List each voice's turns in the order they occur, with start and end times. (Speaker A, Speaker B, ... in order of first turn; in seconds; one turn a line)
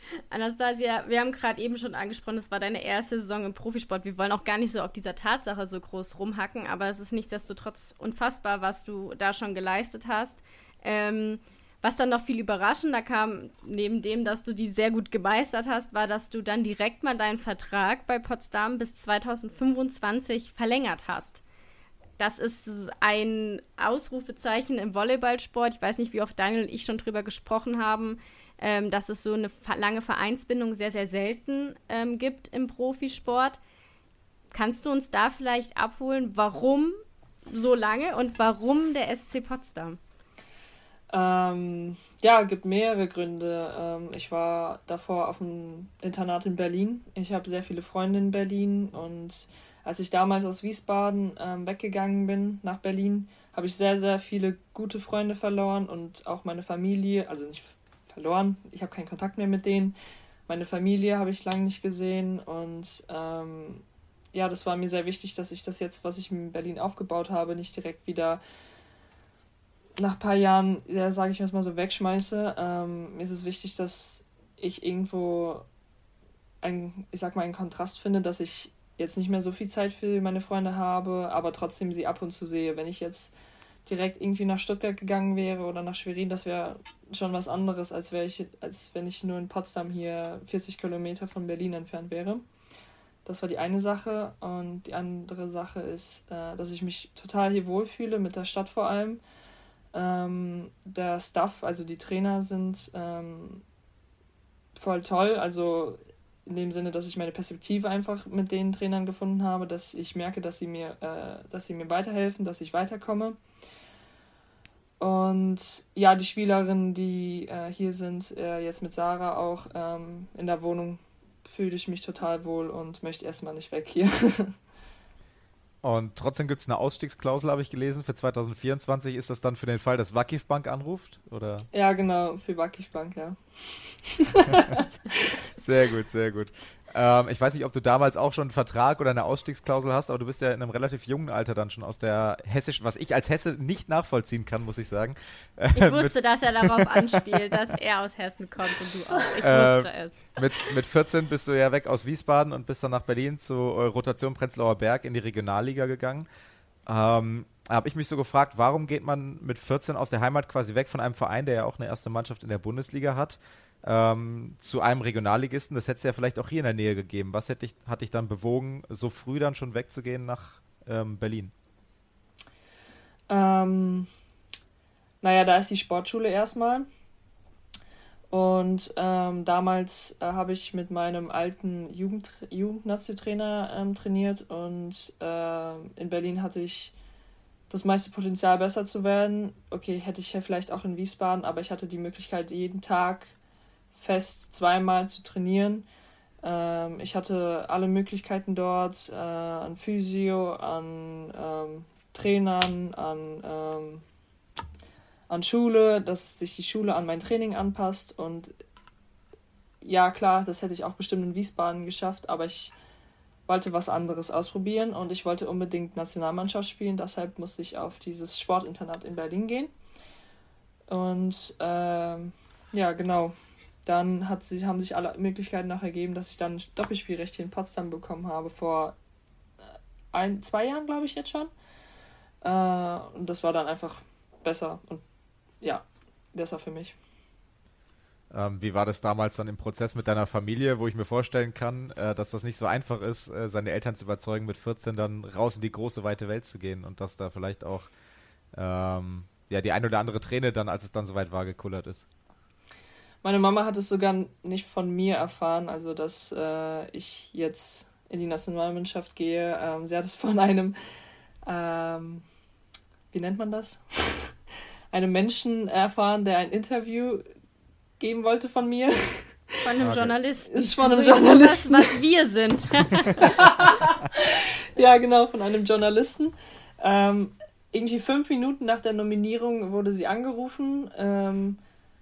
Speaker A: 0.3-21.4
Speaker A: 22.2-33.6
Speaker A: 34.5-37.0
Speaker A: 37.5-40.0
Speaker B: 41.1-60.0
Speaker B: 60.5-68.4
Speaker B: 70.0-75.7
Speaker B: 76.6-83.3
Speaker B: 83.9-92.5
Speaker B: 93.2-99.2
Speaker B: 99.9-103.6
Speaker B: 104.8-113.4
Speaker B: 115.0-124.5
Speaker C: 125.8-131.7
Speaker B: 131.7-135.4
Speaker C: 134.5-134.9
Speaker C: 135.5-147.4
Speaker A: 145.8-150.7
Speaker C: 149.4-156.3
Speaker C: 156.9-171.5
Speaker B: 173.3-174.1
Speaker B: 175.2-176.9
Speaker B: 178.3-186.9
Speaker B: 187.7-193.3
Speaker B: 193.9-195.9
Speaker B: 196.4-204.0
Speaker B: 205.3-208.5
Speaker B: 209.8-212.7
Speaker B: 213.5-219.7
Speaker B: 220.9-223.3
Speaker B: 223.9-229.0
Speaker B: 229.7-231.5
Speaker B: 232.4-235.0
Speaker B: 235.6-237.0
Speaker C: 238.3-247.9
Speaker C: 248.5-252.1
Speaker B: 253.2-260.8
Speaker B: 261.4-262.2
Speaker B: 263.1-264.3
Speaker B: 264.9-267.3
Speaker B: 268.0-269.7
Speaker A: 269.6-273.4
Speaker C: 269.8-270.1
Speaker B: 270.5-272.0
Speaker B: 273.2-281.6